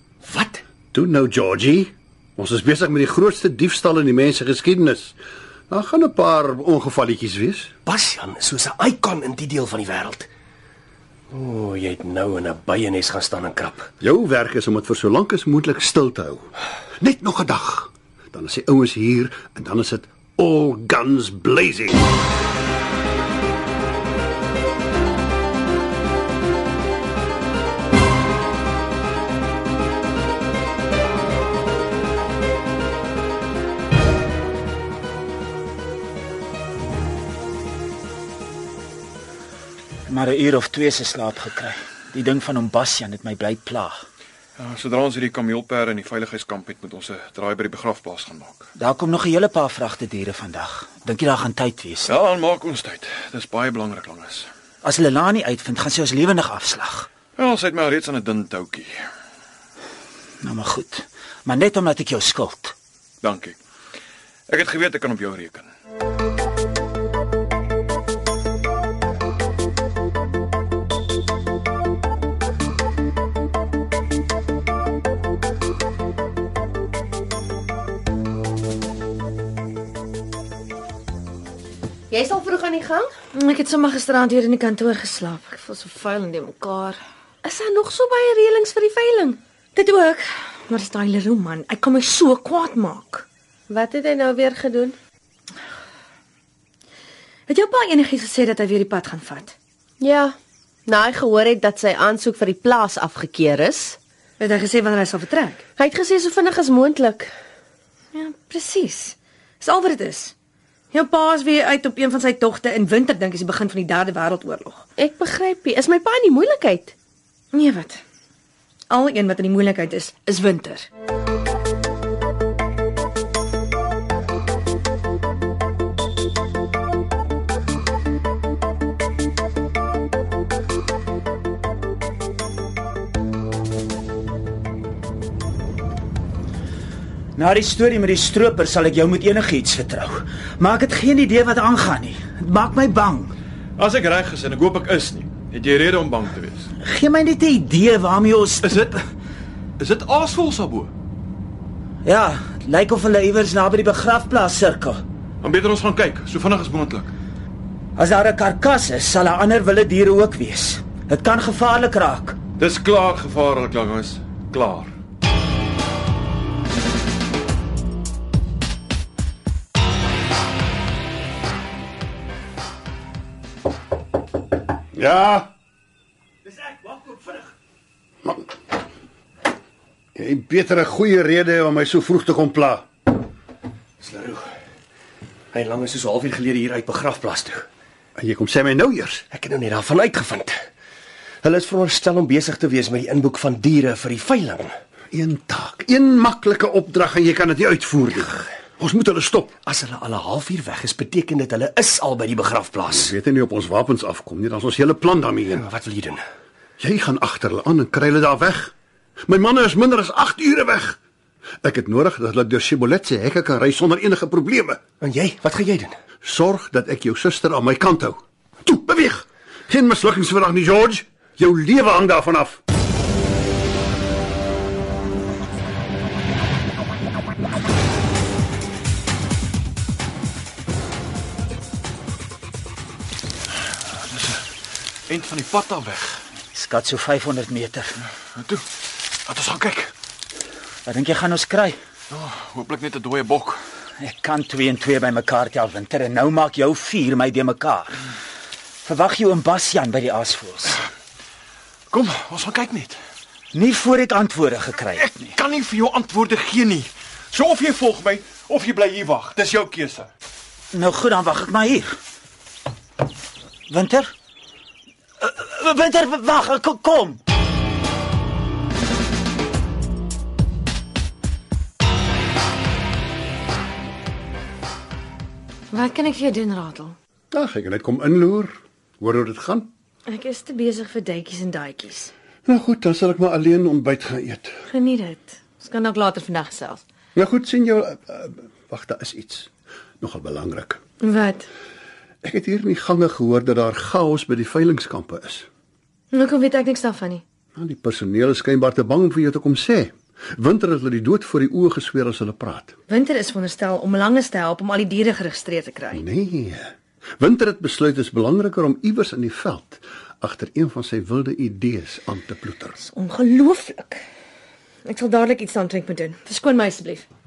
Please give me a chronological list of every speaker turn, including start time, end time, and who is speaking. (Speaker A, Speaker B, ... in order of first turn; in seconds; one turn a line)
Speaker A: 0.2-0.6
Speaker B: 0.9-5.2
Speaker B: 5.7-7.7
Speaker A: 7.8-10.3
Speaker A: 11.3-13.9
Speaker B: 14.0-22.0
Speaker C: 40.0-44.0
Speaker D: 44.6-48.7
Speaker C: 48.8-52.1
Speaker D: 52.0-54.5
Speaker C: 54.8-57.1
Speaker D: 57.4-59.0
Speaker C: 60.4-62.7
Speaker D: 63.2-63.5
Speaker D: 64.5-65.7
Speaker E: 82.1-83.1
Speaker F: 83.3-87.0
Speaker E: 87.4-89.4
Speaker F: 89.7-93.2
Speaker E: 93.7-95.0
Speaker F: 97.5-99.5
Speaker E: 100.0-100.3
Speaker E: 100.9-104.0
Speaker F: 104.4-105.6
Speaker E: 105.8-107.3
Speaker F: 108.1-110.3
Speaker F: 110.9-114.8
Speaker E: 115.0-116.9
Speaker F: 117.5-118.0
Speaker F: 118.9-120.9
Speaker C: 137.3-143.3
Speaker D: 143.8-146.7
Speaker C: 146.8-148.8
Speaker D: 148.6-149.0
Speaker D: 149.8-150.9
Speaker C: 152.0-155.0
Speaker D: 155.4-157.1
Speaker C: 157.9-162.4
Speaker D: 162.6-164.9
Speaker B: 174.9-175.5
Speaker A: 176.7-177.4
Speaker B: 180.1-182.8
Speaker A: 184.0-184.4
Speaker A: 185.5-187.6
Speaker B: 188.2-189.2
Speaker A: 189.3-190.6
Speaker A: 191.4-194.7
Speaker B: 195.1-199.5
Speaker A: 199.6-203.1
Speaker B: 202.9-205.7
Speaker A: 205.6-206.2
Speaker B: 206.8-208.7
Speaker B: 209.3-211.0
Speaker B: 211.6-214.8
Speaker A: 215.0-215.9
Speaker B: 216.2-222.6
Speaker D: 233.9-234.5
Speaker D: 235.1-236.2
Speaker C: 236.5-237.9
Speaker D: 238.3-238.7
Speaker D: 239.2-239.9
Speaker C: 240.8-241.8
Speaker D: 242.1-243.6
Speaker C: 244.0-248.0
Speaker C: 248.8-250.8
Speaker D: 251.9-253.0
Speaker C: 253.5-255.3
Speaker D: 254.9-260.1
Speaker C: 260.7-261.9
Speaker C: 263.7-264.1
Speaker C: 265.2-267.2
Speaker F: 275.7-276.9
Speaker B: 277.3-279.7
Speaker F: 280.1-282.1
Speaker B: 282.4-284.6
Speaker F: 284.7-286.8
Speaker B: 287.1-289.5
Speaker B: 290.0-290.8
Speaker F: 291.0-291.5
Speaker B: 292.2-295.5
Speaker F: 296.1-297.2
Speaker B: 297.6-302.8
Speaker F: 302.9-306.0
Speaker B: 305.9-312.8
Speaker F: 312.9-314.0
Speaker F: 314.9-317.1